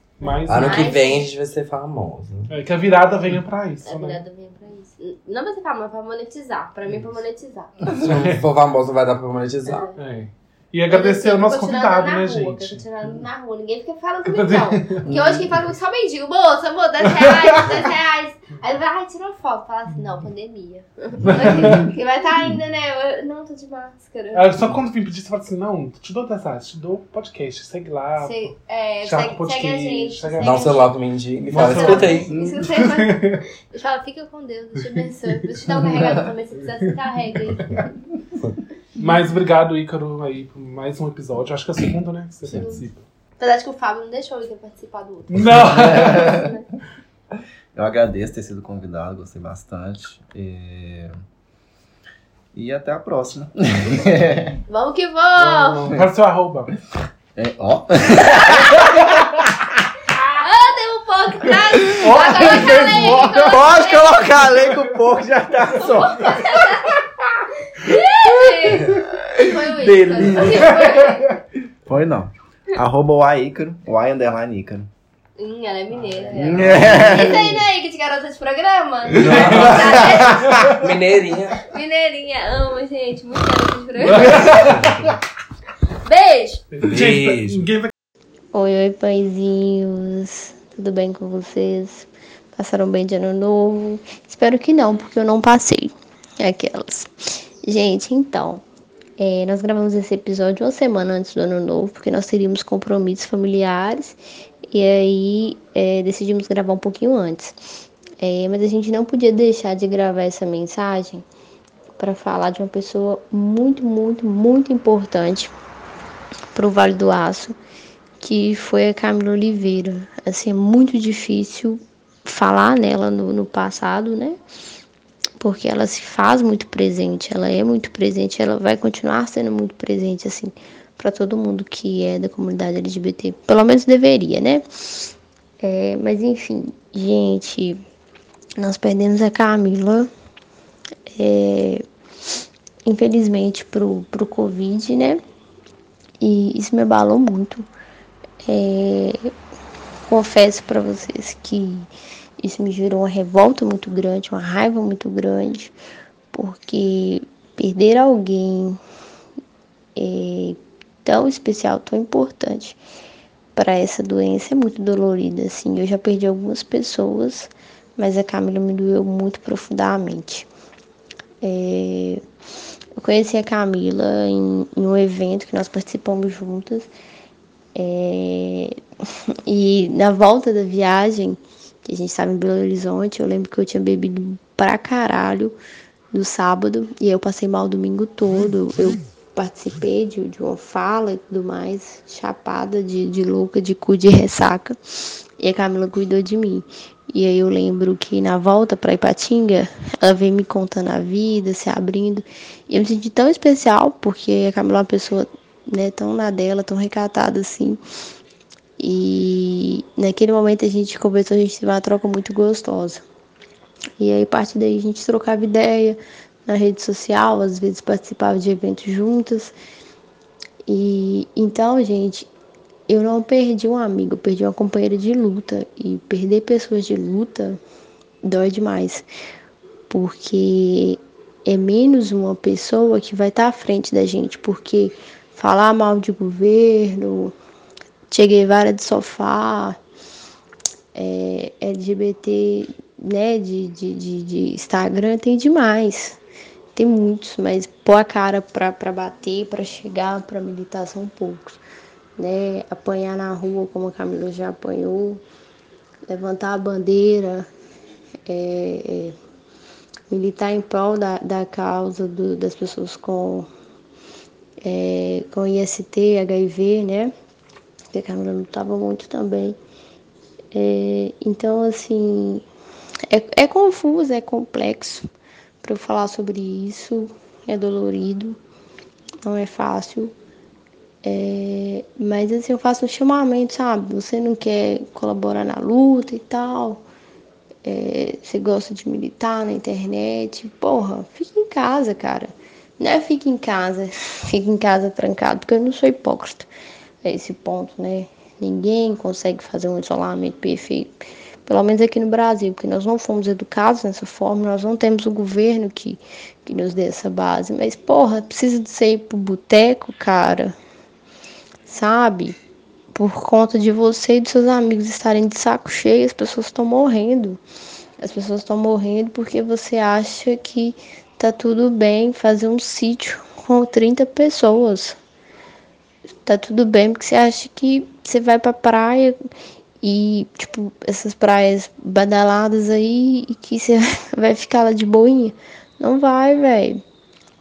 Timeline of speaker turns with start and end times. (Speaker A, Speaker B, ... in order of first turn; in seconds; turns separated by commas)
Speaker A: 0.2-1.0, Speaker B: 0.3-1.3, Speaker C: 0.5-2.5, Speaker A: 2.5-4.2, Speaker B: 3.8-7.7, Speaker A: 7.9-8.4, Speaker C: 7.9-9.9, Speaker B: 9.7-10.0, Speaker A: 10.0-12.8, Speaker B: 10.9-24.6, Speaker A: 14.3-15.1, Speaker D: 15.1-15.5, Speaker A: 17.1-17.9, Speaker A: 21.3-21.9, Speaker A: 24.3-30.8, Speaker B: 28.2-31.0, Speaker C: 30.4-32.3, Speaker A: 31.5-33.4, Speaker B: 31.5-37.9, Speaker D: 32.3-32.6, Speaker A: 34.8-36.2, Speaker A: 37.6-37.9, Speaker A: 39.0-43.0, Speaker D: 42.5-42.8, Speaker B: 42.5-42.9, Speaker B: 43.4-46.6, Speaker A: 45.3-46.5, Speaker D: 45.6-46.5, Speaker D: 47.8-51.1, Speaker D: 52.5-54.6, Speaker B: 54.7-55.9, Speaker A: 55.4-56.7, Speaker D: 57.4-59.4, Speaker B: 58.2-58.6, Speaker B: 60.1-64.5, Speaker A: 61.9-63.7, Speaker D: 63.2-66.6, Speaker A: 64.5-64.8, Speaker B: 65.7-71.4, Speaker D: 68.9-71.0, Speaker A: 70.3-71.2, Speaker D: 71.9-74.9, Speaker B: 75.4-80.8, Speaker A: 76.0-77.6, Speaker D: 76.3-77.6, Speaker D: 79.2-80.5, Speaker C: 79.2-81.6, Speaker A: 79.2-80.8, Speaker B: 81.6-84.6, Speaker A: 84.0-85.2, Speaker C: 84.5-84.9, Speaker B: 86.0-86.6, Speaker A: 86.7-87.9, Speaker C: 86.8-87.6, Speaker E: 88.5-98.6, Speaker E: 99.2-104.2, Speaker E: 104.7-107.6, Speaker E: 108.2-111.2, Speaker E: 112.0-115.5, Speaker E: 116.5-117.6, Speaker E: 118.2-124.4, Speaker E: 125.4-135.1, Speaker E: 135.6-137.8, Speaker E: 138.6-140.1, Speaker E: 141.1-141.8, Speaker E: 142.9-145.2, Speaker E: 146.2-147.7, Speaker E: 148.4-149.3, Speaker E: 150.1-151.9, Speaker E: 152.4-155.7, Speaker E: 156.3-158.8, Speaker E: 160.0-162.8, Speaker E: 163.6-170.5, Speaker E: 171.4-172.2, Speaker E: 173.0-176.9, Speaker E: 177.8-178.8, Speaker E: 179.5-185.6, Speaker E: 186.1-194.8, Speaker E: 195.4-207.8, Speaker E: 208.8-213.0, Speaker E: 214.0-219.5, Speaker E: 220.7-222.3, Speaker E: 222.9-227.6, Speaker E: 228.2-229.1, Speaker E: 229.9-237.3, Speaker E: 238.1-239.8, Speaker E: 240.9-246.2, Speaker E: 246.8-251.6, Speaker E: 252.2-255.2, Speaker E: 256.1-257.5, Speaker E: 258.3-259.1, Speaker E: 260.1-263.5, Speaker E: 264.6-267.1, Speaker E: 267.9-269.6, Speaker E: 270.5-272.4, Speaker E: 273.1-275.1, Speaker E: 275.6-278.4, Speaker E: 279.2-280.1, Speaker E: 281.0-286.8, Speaker E: 287.6-296.5, Speaker E: 297.0-310.6, Speaker E: 311.7-312.4, Speaker E: 312.9-317.4, Speaker E: 318.0-325.0, Speaker E: 326.2-329.2, Speaker E: 329.8-336.8